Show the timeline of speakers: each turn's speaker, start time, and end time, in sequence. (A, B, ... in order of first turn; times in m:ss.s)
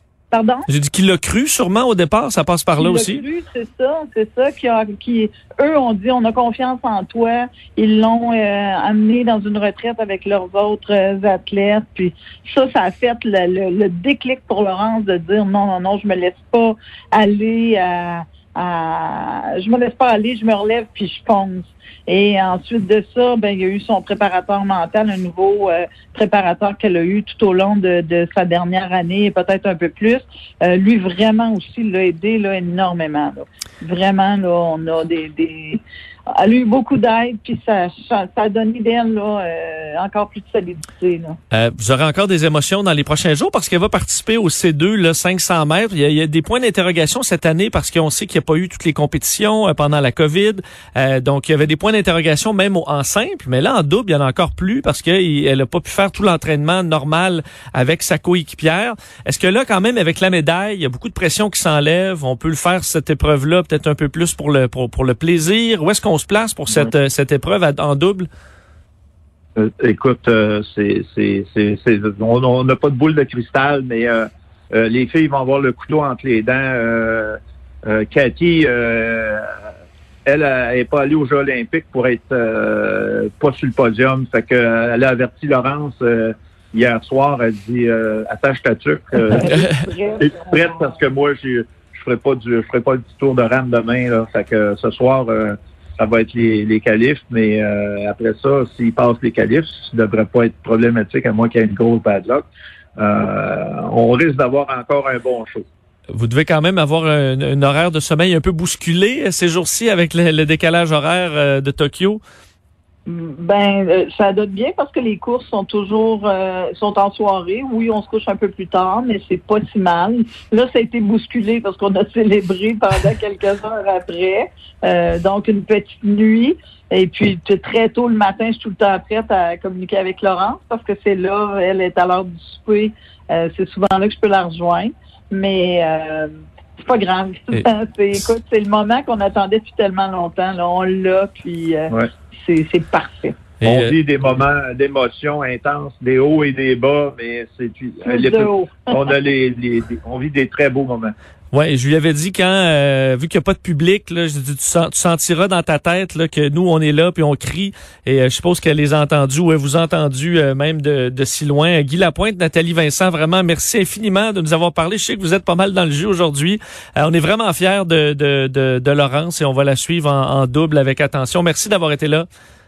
0:00.3-0:00.7 A
0:00.7-0:03.2 B
0:02.8-0:35.8 A
0:36.3-0:41.4 A
0:41.5-1:08.3 B
1:09.6-1:19.4 C
1:20.3-1:29.5 C
1:29.3-1:30.8 A
1:30.2-1:45.7 C
1:46.1-1:52.2 B
1:53.1-2:23.4 A
2:23.6-2:23.9 B
2:23.6-2:31.2 C
2:28.0-2:29.1 A
2:31.5-2:52.3 B